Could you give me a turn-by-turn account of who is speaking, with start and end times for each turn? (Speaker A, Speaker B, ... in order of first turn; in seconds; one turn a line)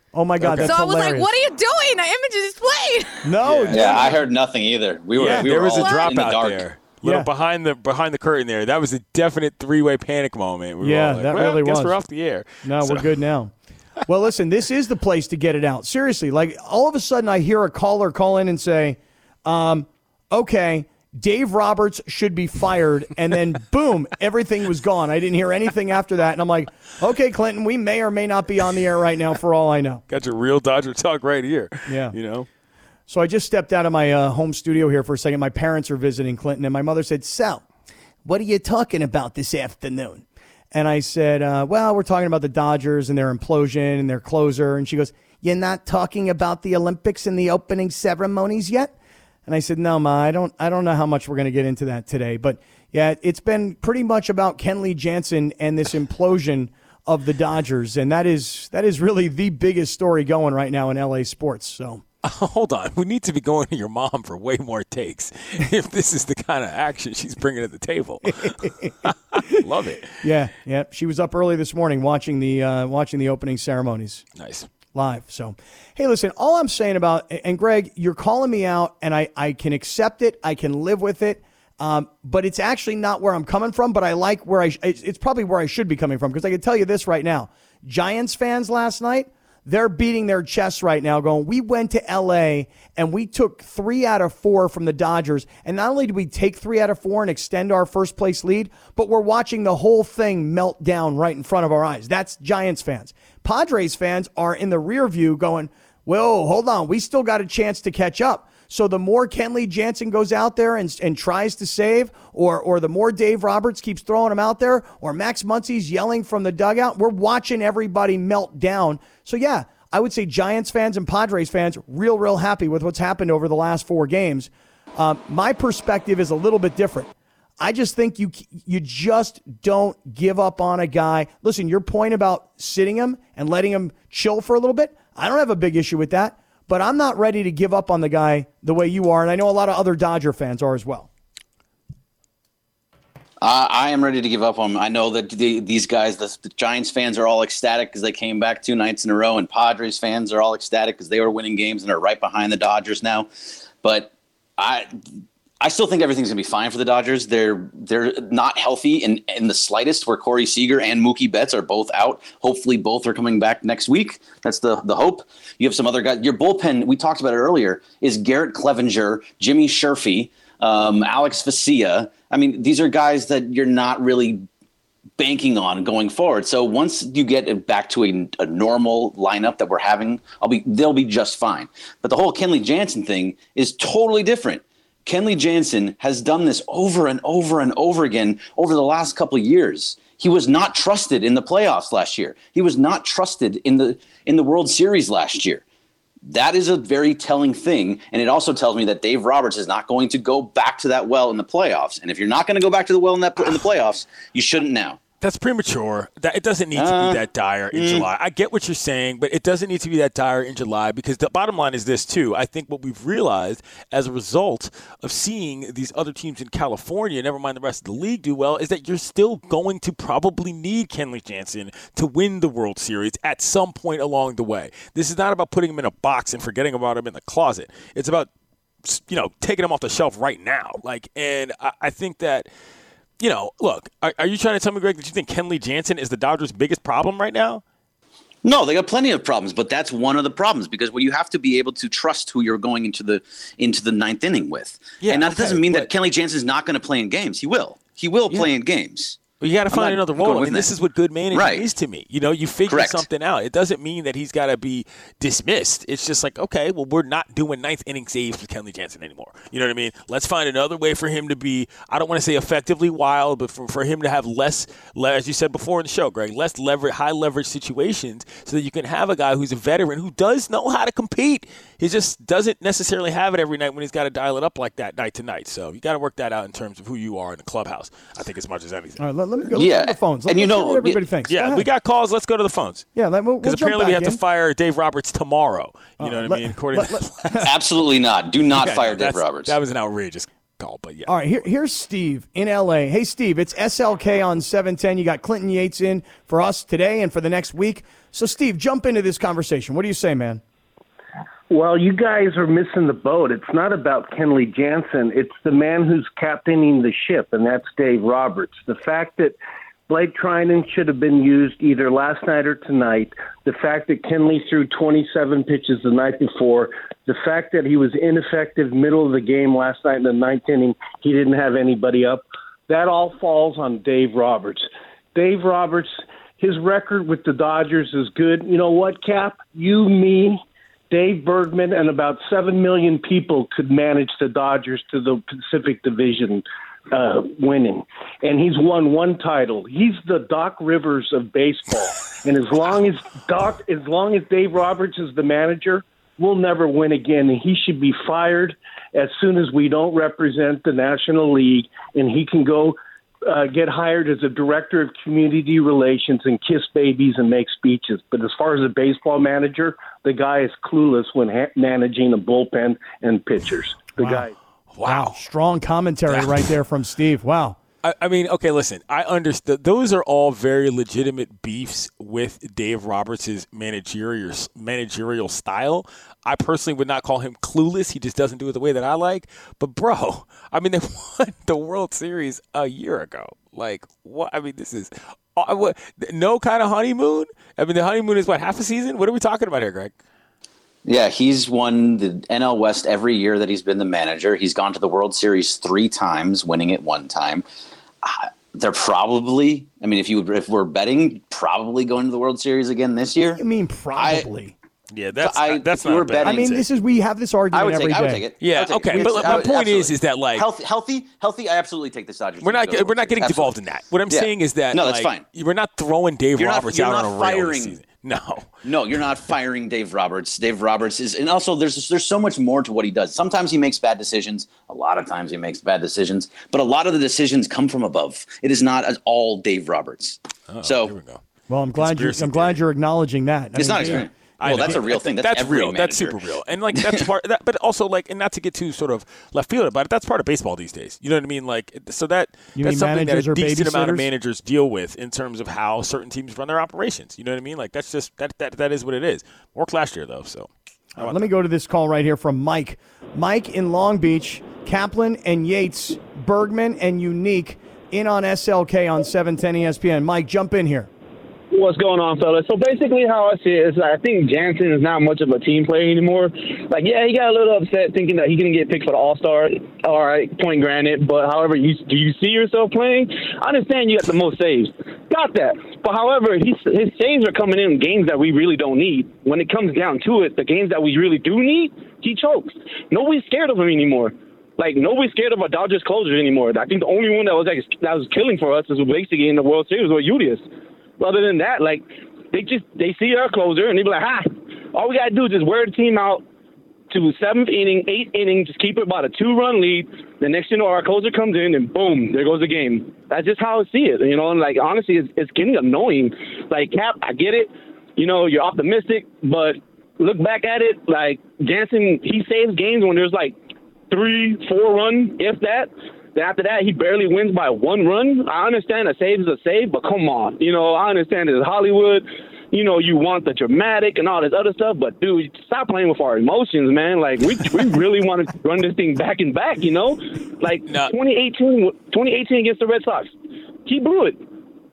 Speaker A: 0.1-1.3
Speaker B: 0.4-0.8
Speaker C: 0.5-4.1
Speaker A: 3.2-4.1
Speaker B: 3.4-4.1
Speaker D: 3.7-6.7
Speaker A: 5.2-5.5
Speaker B: 5.2-13.1
Speaker C: 5.6-6.1
Speaker A: 10.8-12.0
Speaker A: 12.6-13.5
Speaker A: 14.1-30.0
Speaker B: 30.1-32.5
Speaker A: 31.9-32.1
Speaker A: 33.1-37.6
Speaker A: 38.2-48.9
Speaker A: 49.5-62.0
Speaker B: 62.2-70.2
Speaker A: 68.6-69.6
Speaker A: 70.2-74.2
Speaker B: 74.4-74.7
Speaker A: 74.9-141.1
Speaker D: 143.4-155.1
Speaker D: 155.6-174.4
Speaker D: 175.2-195.6
Speaker D: 196.2-205.0
Speaker B: 205.2-228.3
Speaker D: 206.7-207.2
Speaker D: 207.7-208.1
Speaker B: 228.8-232.5
Speaker B: 233.2-237.6
Speaker D: 238.4-250.7
Speaker B: 245.0-245.9
Speaker B: 249.4-279.0
Speaker D: 251.3-251.7
Speaker D: 252.7-253.1
Speaker A: 279.0-281.7
Speaker D: 279.5-281.0
Speaker B: 281.3-282.9
Speaker A: 282.9-284.2
Speaker B: 283.4-287.5
Speaker A: 286.0-287.4
Speaker D: 287.4-289.6
Speaker B: 288.5-291.4
Speaker A: 291.1-300.4
Speaker E: 301.5-309.4
Speaker E: 309.9-364.3
Speaker A: 364.0-364.3
Speaker B: 364.7-365.2
Speaker A: 364.8-367.6
Speaker B: 366.1-366.5
Speaker B: 367.8-389.9
Speaker D: 390.8-397.4
Speaker D: 398.0-403.4
Speaker A: 403.3-404.5
Speaker D: 403.9-404.3
Speaker B: 404.9-406.6
Speaker D: 405.2-406.6
Speaker A: 406.2-408.2
Speaker D: 407.5-413.6
Speaker B: 408.4-410.5
Speaker A: 408.9-409.5
Speaker B: 412.4-418.5
Speaker D: 414.1-415.2
Speaker D: 416.4-417.8
Speaker D: 418.6-430.9
Speaker B: 430.5-431.2
Speaker A: 431.5-434.1
Speaker B: 431.8-432.6
Speaker D: 433.5-436.2
Speaker B: 433.9-451.3
Speaker D: 436.7-437.1
Speaker A: 442.6-444.1
Speaker A: 450.9-460.9
Speaker F: 461.5-490.4
Speaker F: 491.0-496.2
Speaker F: 496.9-513.4
Speaker F: 513.9-533.1
Speaker B: 530.7-530.9
Speaker F: 533.6-534.2